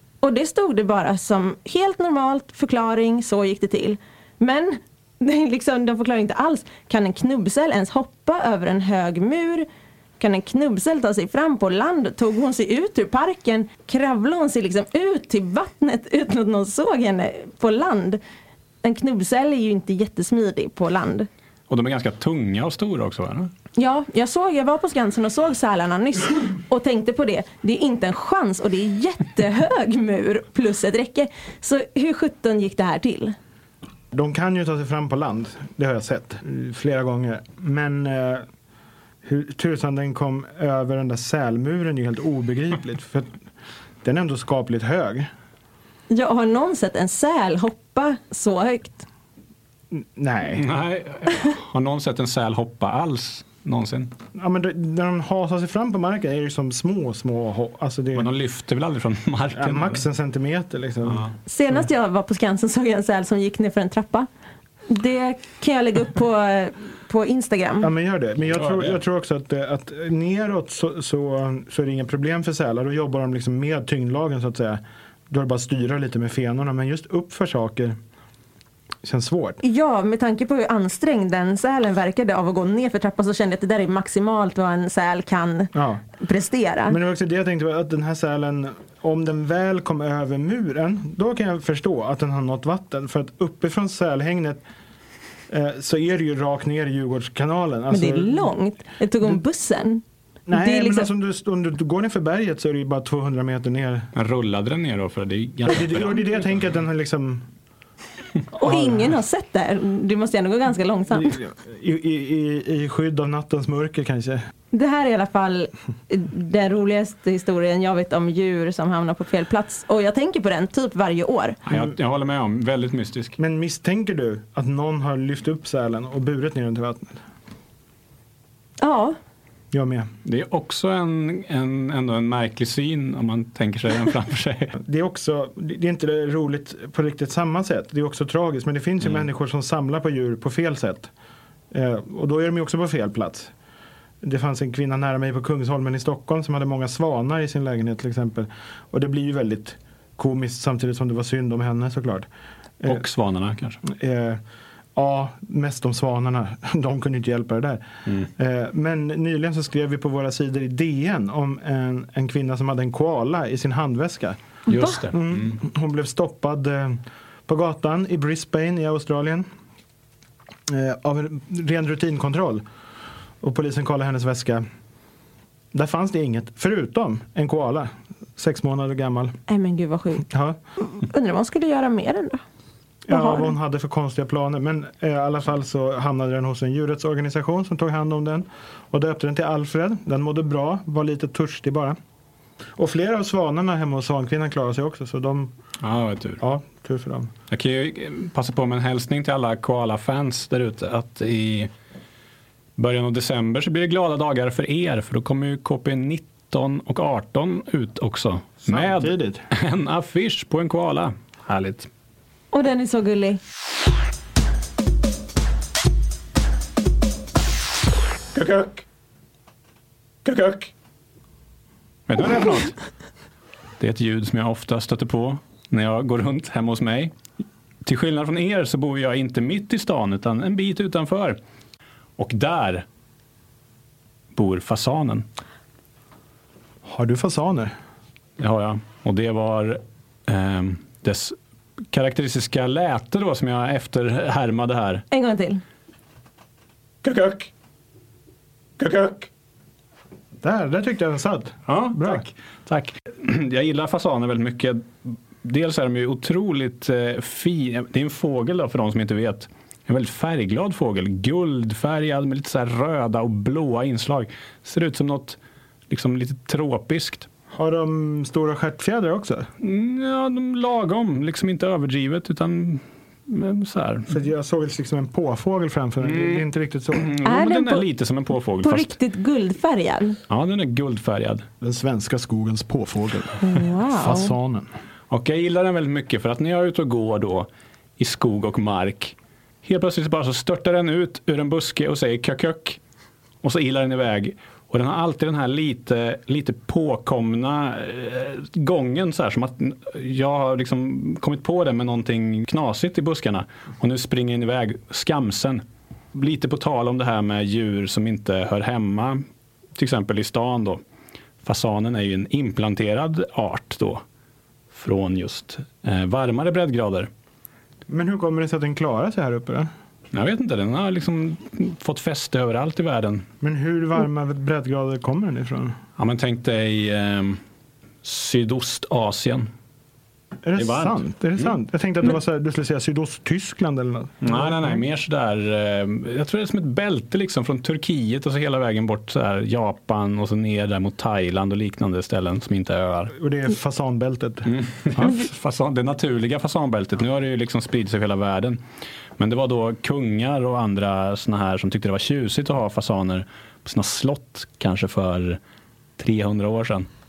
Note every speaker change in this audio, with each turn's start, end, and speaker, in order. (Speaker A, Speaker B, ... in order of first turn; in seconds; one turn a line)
Speaker A: 0.2-9.7
Speaker A: 10.2-18.2
Speaker A: 18.8-21.3
Speaker B: 21.7-23.5
Speaker A: 23.8-33.3
Speaker C: 34.1-38.4
Speaker C: 39.2-43.4
Speaker C: 44.0-45.3
Speaker A: 46.1-49.0
Speaker C: 49.9-50.7
Speaker B: 50.5-54.1
Speaker C: 54.3-58.3
Speaker B: 58.1-60.0
Speaker C: 59.5-61.2
Speaker B: 61.0-61.3
Speaker A: 61.5-64.3
Speaker A: 64.9-67.9
Speaker C: 67.8-78.0
Speaker B: 68.5-69.0
Speaker C: 79.0-79.6
Speaker A: 79.6-87.0
Speaker C: 85.7-86.0
Speaker C: 86.9-94.6
Speaker C: 95.5-98.5
Speaker A: 97.9-101.1
Speaker C: 100.5-104.1
Speaker B: 104.1-106.2
Speaker C: 105.6-107.4
Speaker A: 108.5-111.4
Speaker C: 108.6-109.2
Speaker C: 111.1-114.4
Speaker A: 114.7-121.6
Speaker B: 121.7-123.3
Speaker C: 123.4-127.2
Speaker A: 128.8-129.1
Speaker C: 129.7-130.1
Speaker B: 130.2-134.7
Speaker C: 134.8-141.1
Speaker C: 141.7-143.5
Speaker C: 144.2-152.2
Speaker B: 152.8-153.8
Speaker C: 153.8-154.4
Speaker C: 154.9-157.8
Speaker C: 158.3-164.4
Speaker A: 164.7-165.0
Speaker B: 164.7-165.6
Speaker C: 165.1-169.4
Speaker C: 170.7-172.6
Speaker C: 173.4-174.6
Speaker C: 175.7-179.3
Speaker A: 179.5-182.4
Speaker C: 180.3-180.6
Speaker C: 183.1-191.9
Speaker A: 183.1-183.5
Speaker C: 192.8-195.5
Speaker B: 195.8-196.4
Speaker C: 196.4-197.3
Speaker B: 197.5-201.7
Speaker B: 202.8-211.9
Speaker C: 208.6-209.4
Speaker A: 212.5-213.4
Speaker B: 218.3-218.8
Speaker B: 220.2-220.7
Speaker B: 222.1-222.8
Speaker B: 223.8-227.1
Speaker B: 227.8-231.4
Speaker B: 232.2-232.8
Speaker B: 234.3-235.2
Speaker C: 236.8-237.7
Speaker B: 238.4-241.3
Speaker B: 241.9-245.0
Speaker A: 245.1-245.6
Speaker B: 247.0-247.5
Speaker B: 248.8-249.3
Speaker C: 250.4-252.2
Speaker B: 251.7-265.4
Speaker B: 265.9-267.3
Speaker C: 267.5-269.5
Speaker B: 269.6-274.1
Speaker C: 274.1-277.1
Speaker B: 276.0-278.9
Speaker A: 277.2-277.9
Speaker A: 278.6-280.2
Speaker B: 280.3-281.4
Speaker C: 281.6-284.7
Speaker A: 283.4-284.3
Speaker B: 285.1-292.8
Speaker B: 293.4-305.6
Speaker B: 306.1-309.2
Speaker B: 309.7-310.8
Speaker B: 311.4-314.0
Speaker B: 314.7-317.1
Speaker C: 317.9-319.7
Speaker B: 320.1-323.2
Speaker C: 323.4-325.8
Speaker B: 326.0-327.4
Speaker B: 328.0-329.5
Speaker C: 330.4-334.8
Speaker B: 330.6-331.5
Speaker B: 334.2-343.1
Speaker C: 343.1-344.5
Speaker B: 344.4-348.6
Speaker B: 349.2-355.4
Speaker B: 356.0-356.9